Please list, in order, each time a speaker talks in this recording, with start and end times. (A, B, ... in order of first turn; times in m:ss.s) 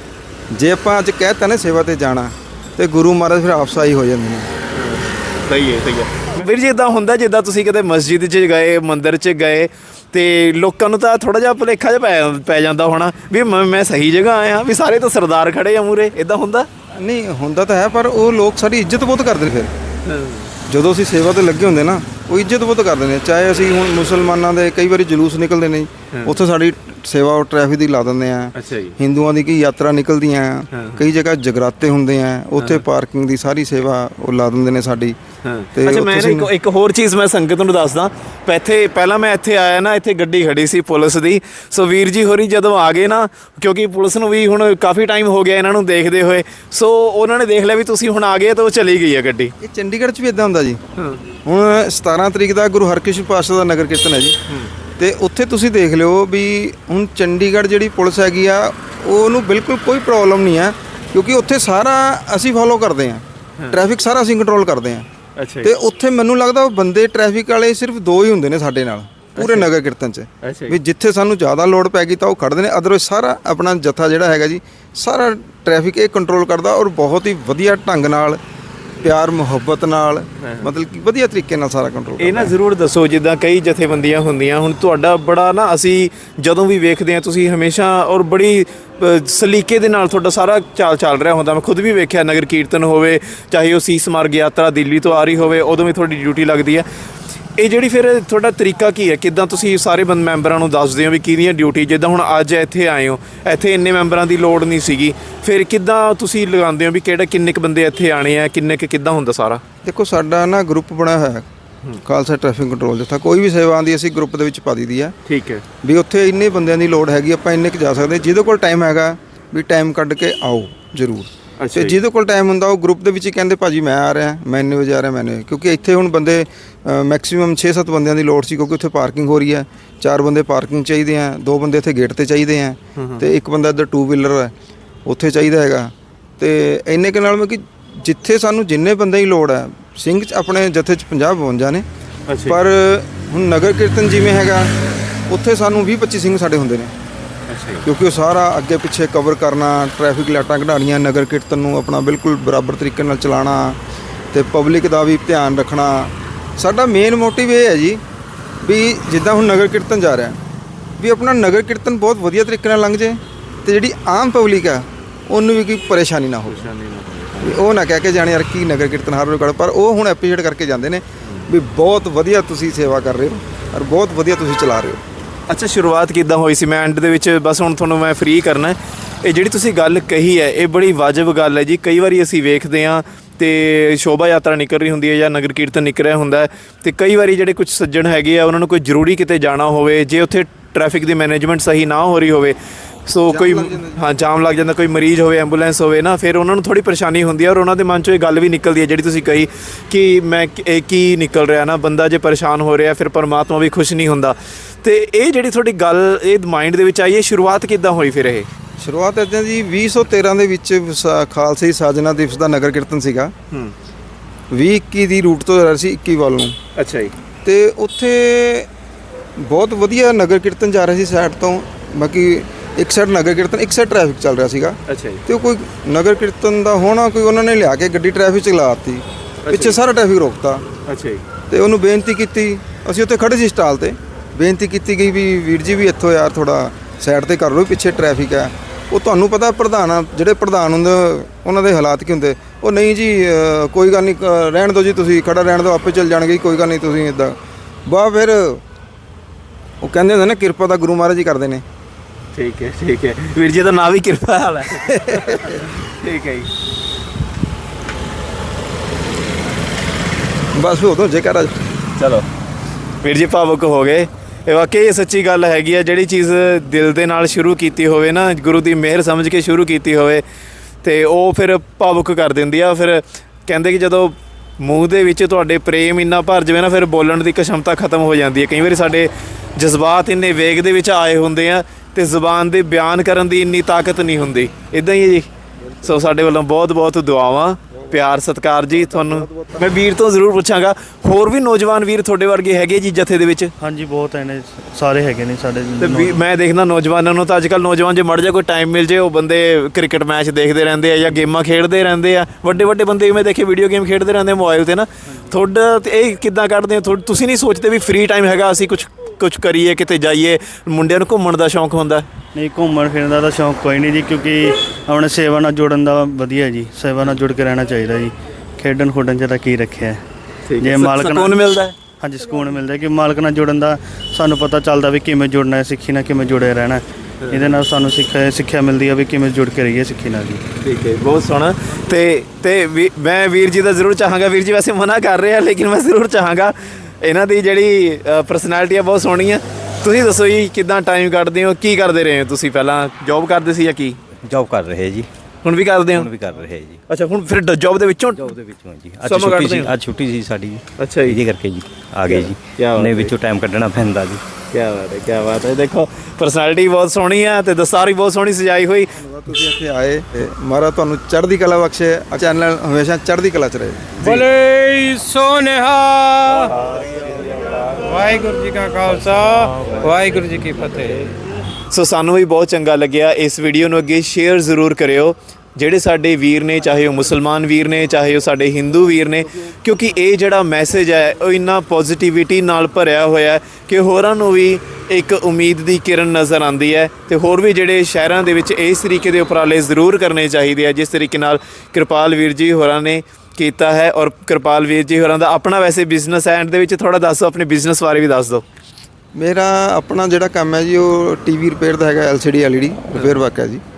0:00.5-0:04.5 A
0:04.7-0:16.7 B
0:17.0-0:19.7 A
0:20.1-0:20.5 B
0:20.7-0:35.2 A
0:26.1-0:26.4 B
0:28.5-0:29.0 B
0:30.7-0:31.0 B
0:32.6-0:32.8 B
0:35.4-0:49.5 B
0:35.8-0:36.5 A
0:49.6-0:50.8 A
0:51.4-0:54.4 A
0:55.0-1:05.1 A
1:05.4-1:05.7 B
1:05.6-1:18.4 A
1:09.4-1:09.7 B
1:10.4-1:10.8 B
1:19.0-1:22.6 A
1:20.4-1:20.7 B
1:22.2-1:36.9 B
1:37.6-1:49.6 B
1:49.8-1:51.5 A
1:52.0-1:55.1 A
1:55.3-1:55.6 B
1:55.8-2:14.5 A
2:01.6-2:02.0 B
2:13.0-2:13.2 B
2:15.1-2:21.8 A
2:22.3-2:22.6 B
2:22.4-2:24.7 A
2:25.3-2:26.9 A
2:27.5-2:27.9 B
2:27.8-2:33.8 A
2:34.3-2:38.0 A
2:38.6-2:40.4 A
2:41.0-2:46.7 A
2:46.5-2:47.6 B
2:47.4-2:55.0 A
2:55.5-3:28.5 B
3:13.3-3:14.0 A
3:28.8-3:33.3 A
3:34.5-3:36.6 A
3:36.8-3:37.1 B
3:37.4-3:38.7 A
3:39.4-3:50.6 A
3:44.9-3:45.2 B
3:49.4-3:49.8 B
3:50.9-3:51.2 B
3:51.5-4:07.4 A
4:07.9-4:08.6 A
4:09.8-4:11.6 A
4:12.4-4:16.5 B
4:20.6-4:21.5 A
4:22.0-4:22.3 B
4:23.0-4:30.2 B
4:30.8-4:45.3 B
4:45.8-4:53.5 B
4:48.7-4:49.7 A
4:53.6-4:56.2 C
4:55.8-5:12.1 B
5:12.4-5:20.0 C
5:20.5-5:21.8 B
5:20.6-5:21.4 C
5:22.0-5:30.4 C
5:27.2-5:27.6 B
5:30.6-5:44.0 B
5:44.2-5:45.1 D
5:45.4-5:46.1 B
5:45.9-5:46.8 D
5:46.9-5:48.3 B
5:48.2-5:54.2 D
5:49.0-5:49.7 B
5:50.8-5:51.2 B
5:52.1-5:53.2 B
5:54.5-5:59.0 B
5:59.0-6:04.1 A
6:04.0-6:06.5 E
6:06.5-6:08.0 B
6:07.8-6:11.0 E
6:08.9-6:10.1 B
6:11.7-6:38.4 B
6:39.2-6:43.6 A
6:42.9-6:43.2 B